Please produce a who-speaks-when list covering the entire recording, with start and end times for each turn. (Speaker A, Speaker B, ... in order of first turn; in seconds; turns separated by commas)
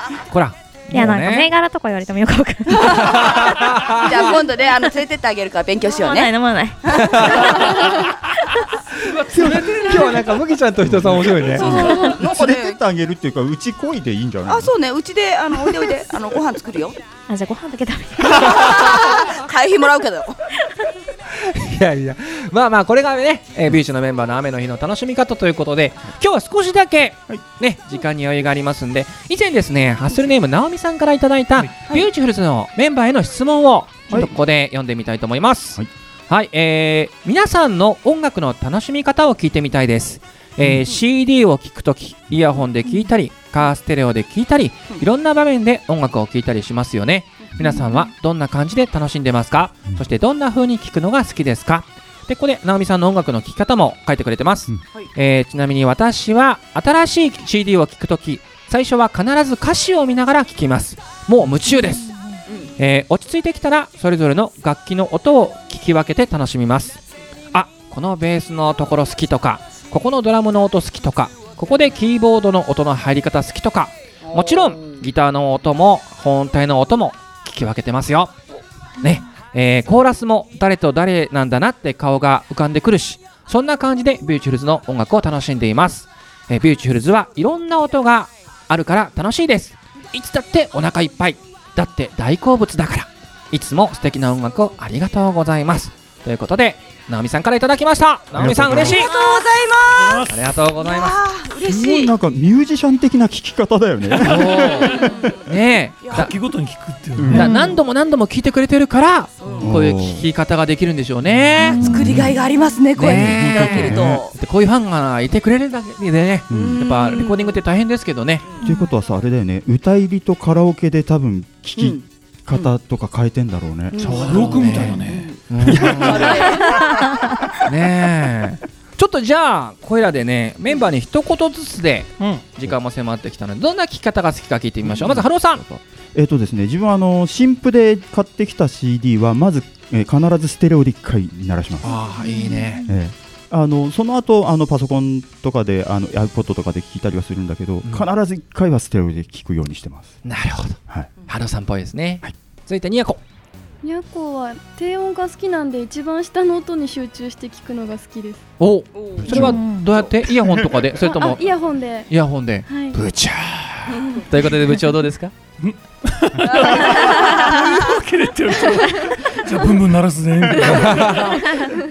Speaker A: 0.3-1.5, Speaker B: 0.9-3.3, Speaker C: 2.7-6.3, Speaker A: 2.8-4.2, Speaker B: 5.9-7.6, Speaker C: 6.8-7.9, Speaker A: 6.9-8.0, Speaker D: 9.0-10.4, Speaker A: 9.2-11.8, Speaker E: 10.9-14.7, Speaker C: 11.5-12.8, Speaker B: 11.7-12.1, Speaker C: 14.5-17.0, Speaker B: 17.3-18.7, Speaker C: 18.3-20.4, Speaker A: 18.5-18.8, Speaker A: 21.3-62.1, Speaker B: 61.7-62.4, Speaker C: 62.5-62.7, Speaker A: 62.8-67.0, Speaker A: 67.5-78.3, Speaker C: 74.3-75.0, Speaker A: 79.0-99.2, Speaker E: 98.3-99.1, Speaker C: 98.7-102.2, Speaker D: 99.9-100.3, Speaker A: 100.3-101.2, Speaker E: 101.6-105.3, Speaker A: 104.1-106.3, Speaker C: 104.6-105.4, Speaker C: 106.0-106.3, Speaker D: 106.1-107.7, Speaker E: 107.2-107.6, Speaker A: 107.3-112.0, Speaker C: 109.4-109.8, Speaker E: 109.6-110.3, Speaker C: 111.6-114.3, Speaker E: 111.8-112.4, Speaker A: 112.9-118.5, Speaker E: 113.0-114.2, Speaker E: 116.5-116.8, Speaker C: 116.5-117.6, Speaker C: 118.4-118.7, Speaker E: 118.6-125.0, Speaker B: 118.6-118.9, Speaker C: 121.8-122.0, Speaker C: 123.9-127.3, Speaker D: 124.1-125.3, Speaker A: 124.5-125.0, Speaker A: 125.5-126.7, Speaker E: 125.7-127.3, Speaker A: 127.6-135.6, Speaker E: 134.8-141.9, Speaker A: 141.8-142.8, Speaker B: 142.2-142.9, Speaker E: 142.8-150.2, Speaker A: 150.2-153.2, Speaker F: 153.8-158.5, Speaker A: 158.6-161.5, Speaker C: 158.9-160.1, Speaker E: 159.2-159.7, Speaker B: 159.3-159.9, Speaker E: 160.3-161.0, Speaker F: 161.0-162.1, Speaker A: 162.1-165.3, Speaker F: 162.7-163.0, Speaker C: 163.9-164.3, Speaker D: 165.6-171.6, Speaker C: 166.4-168.0, Speaker F: 170.6-171.8, Speaker A: 170.8-171.4